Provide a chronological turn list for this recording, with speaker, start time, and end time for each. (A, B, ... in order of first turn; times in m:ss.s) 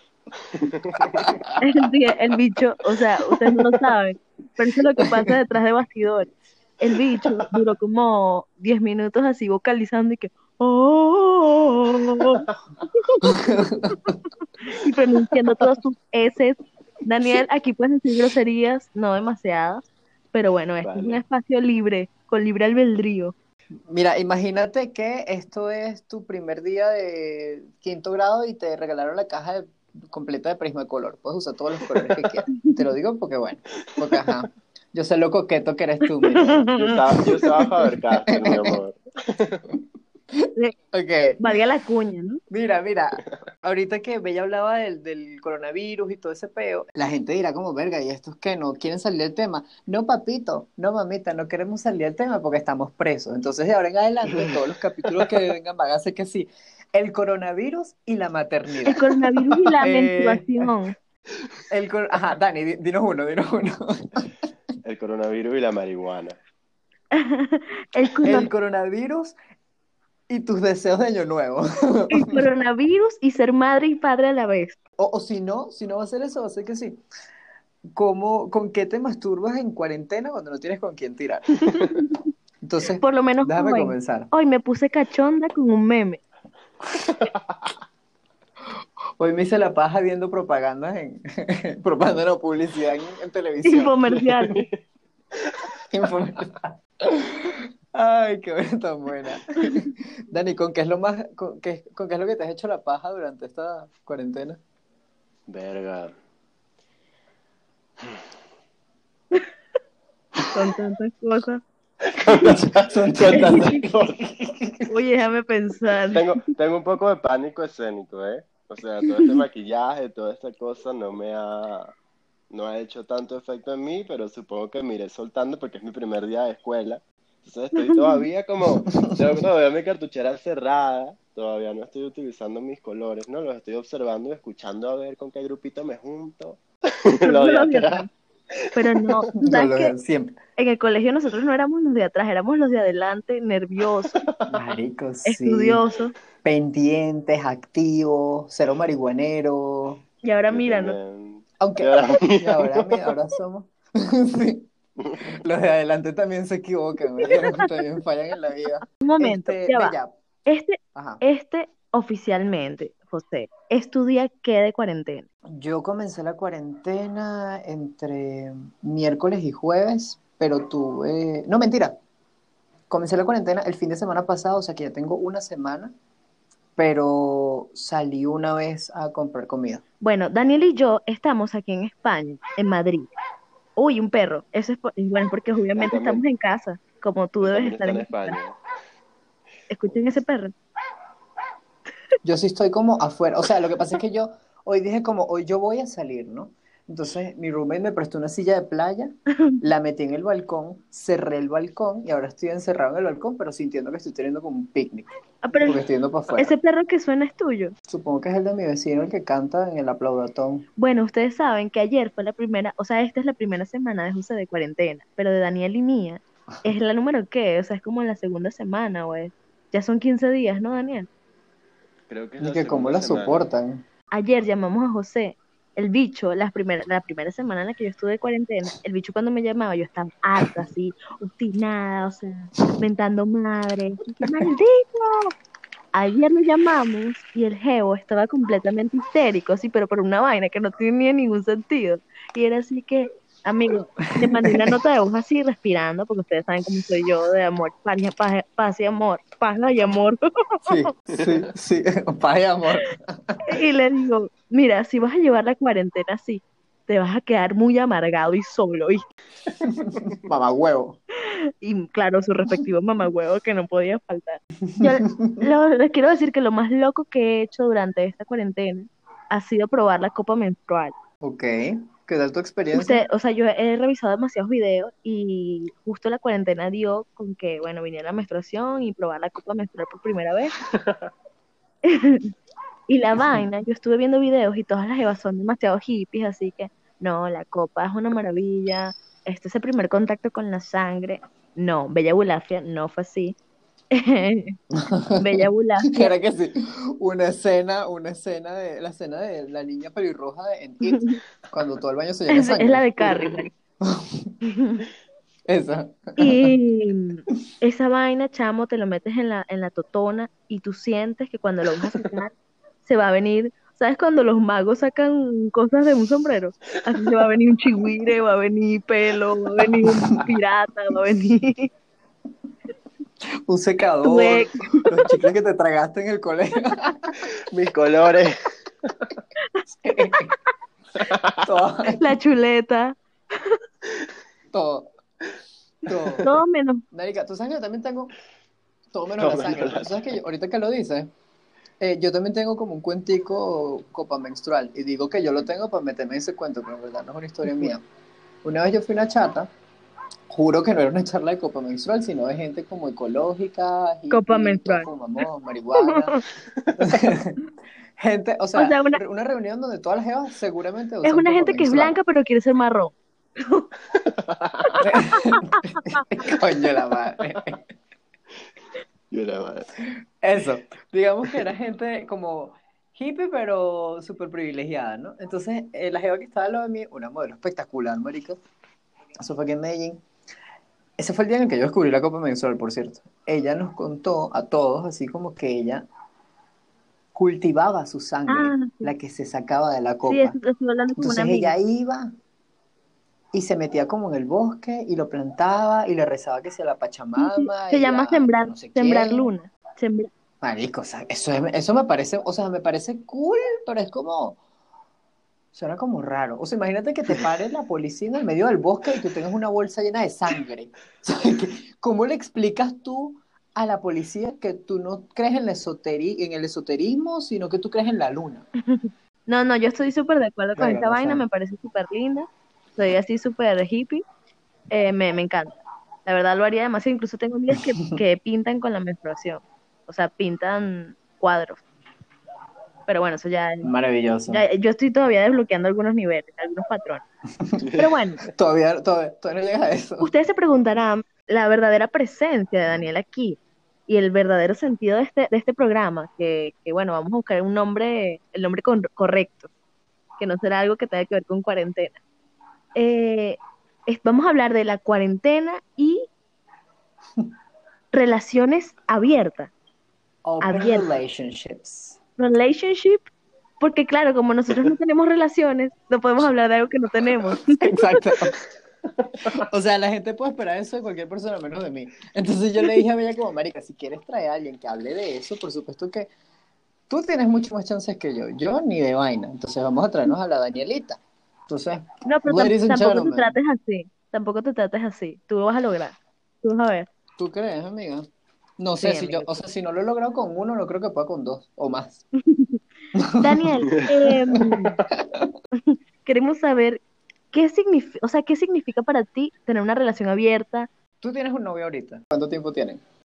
0:00.5-0:01.4 A
0:01.0-0:01.6 B
0:01.6-0:12.4 C
0:05.0-0:05.3 B
0:12.2-0:12.5 A
0:13.0-0:13.4 C
0:13.2-0:14.2 B
0:14.7-0:23.3 C
0:20.8-0:21.2 A
0:23.9-0:37.2 B
0:31.9-0:32.3 A
0:34.0-0:34.3 A
0:36.4-0:37.0 C
0:36.7-0:39.6 A
0:38.3-0:38.8 B
0:40.4-0:41.4 B
0:41.4-0:42.4 C
0:42.5-0:59.1 B
0:58.9-1:00.9 C
0:59.8-1:00.7 B
1:01.7-1:04.3 B
1:04.8-1:06.4 A
1:07.1-1:08.5 C
1:08.0-1:08.4 A
1:08.2-1:09.3 B
1:10.3-1:12.4 B
1:12.1-1:14.8 C
1:15.0-1:17.0 B
1:18.0-1:21.8 B
1:22.6-1:24.3 B
1:23.0-1:26.2 C
1:27.0-1:27.7 A
1:29.2-1:34.0 B
1:33.6-1:34.6 C
1:34.1-1:34.8 A
1:35.3-1:35.7 A
1:35.9-1:44.6 B
1:45.5-1:46.1 A
1:50.5-1:51.6 C
1:52.0-1:54.2 A
1:52.4-1:54.9 B
1:54.9-1:56.3 C
1:56.1-2:01.9 A
2:02.5-2:18.1 A
2:17.2-2:18.1 C
2:18.6-2:19.2 A
2:18.8-2:19.9 C
2:19.4-2:20.3 B
2:20.6-2:24.2 C
2:23.8-2:24.3 A
2:24.5-2:25.8 B
2:25.2-2:26.1 C
2:26.4-2:30.0 B
2:30.2-2:31.0 C
2:30.5-2:33.1 A
2:31.6-2:34.7 B
2:35.0-2:35.3 A
2:35.2-2:40.1 B
2:37.2-2:37.8 C
2:39.0-2:39.9 C
2:40.4-2:45.2 C
2:40.9-2:41.2 B
2:45.5-2:52.0 B
2:52.9-2:55.9 B
2:56.8-2:59.8 B
3:00.0-3:03.1 C
3:03.8-3:08.4 C
3:05.7-3:06.2 A
3:07.4-3:08.6 A
3:09.7-3:10.5 C
3:12.2-3:26.5 B
3:25.4-3:25.8 C
3:26.4-3:27.7 C
3:27.9-3:30.7 B
3:30.8-3:41.1 C
3:42.1-3:43.5 A
3:42.4-3:43.8 B
3:44.1-3:55.3 C
3:55.9-4:10.8 C
4:04.0-4:04.8 B
4:10.6-4:13.4 B
4:11.1-4:11.5 A
4:13.5-4:19.1 C
4:19.6-4:21.0 B
4:21.3-4:30.9 C
4:24.6-4:25.5 B
4:31.2-4:33.0 B
4:32.7-4:40.6 C
4:40.7-4:41.1 A
4:41.8-4:42.3 C
4:42.9-4:53.4 C
4:53.9-4:54.6 C
4:54.7-5:03.2 B
4:55.2-4:56.1 C
5:00.8-5:01.2 C
5:02.3-5:03.5 C
5:03.0-5:03.3 A
5:03.8-5:04.3 B
5:04.4-5:04.9 C
5:05.5-5:06.5 B
5:06.2-5:12.3 C
5:11.6-5:12.2 A
5:12.8-5:21.7 C
5:16.9-5:17.2 A
5:23.5-5:27.2 B
5:24.0-5:25.2 C
5:27.5-5:29.1 A
5:29.5-5:30.5 C
5:29.8-5:30.3 B
5:31.0-5:31.5 A
5:31.4-5:32.1 B
5:32.0-5:33.6 C
5:34.5-5:34.9 B
5:35.8-5:36.3 B
5:35.9-5:36.2 A
5:36.2-5:36.8 C
5:36.9-5:38.1 B
5:38.9-5:41.1 B
5:39.1-5:40.2 A
5:41.8-5:47.8 B
5:48.4-5:49.5 B
5:50.3-5:56.2 B
5:54.1-5:54.9 C
5:55.8-5:56.2 C
5:56.5-5:56.9 A
5:56.8-5:57.4 B
5:58.0-6:02.0 B
5:58.5-5:59.0 C
6:01.0-6:03.7 C
6:03.9-6:04.8 A
6:04.8-6:07.6 B
6:05.8-6:06.2 C
6:09.1-6:09.7 A
6:10.2-6:18.4 B
6:19.2-6:20.0 B
6:21.0-6:25.8 B
6:27.1-6:30.4 B
6:28.3-6:28.9 C
6:30.0-6:31.5 C
6:31.0-6:32.1 B
6:33.3-6:39.3 B
6:37.2-6:40.1 C
6:40.4-6:44.4 B
6:45.5-6:58.4 B
6:58.6-7:04.0 C
7:00.6-7:01.2 B
7:04.7-7:05.5 C
7:06.0-7:11.6 C
7:12.9-7:13.7 C
7:13.6-7:14.4 B
7:14.3-7:17.0 C
7:17.6-7:18.0 A
7:17.8-7:18.2 C
7:18.3-7:20.1 B
7:20.0-7:29.5 C
7:30.2-7:32.0 C
7:32.8-7:36.1 C
7:37.9-7:39.5 C
7:40.2-7:42.0 B
7:40.4-7:40.8 C
7:42.2-7:43.1 C
7:43.6-7:47.6 C
7:47.6-7:48.3 B
7:49.0-7:49.4 A
7:49.4-7:56.1 B
7:56.9-8:03.4 B
8:02.0-8:06.9 C
8:07.2-8:08.1 B
8:08.6-8:12.0 B
8:08.8-8:09.2 C
8:12.2-8:12.6 C
8:12.9-8:13.3 B
8:13.2-8:14.8 C
8:13.7-8:14.4 A
8:15.6-8:16.8 C
8:17.3-8:20.7 C
8:21.0-8:22.8 B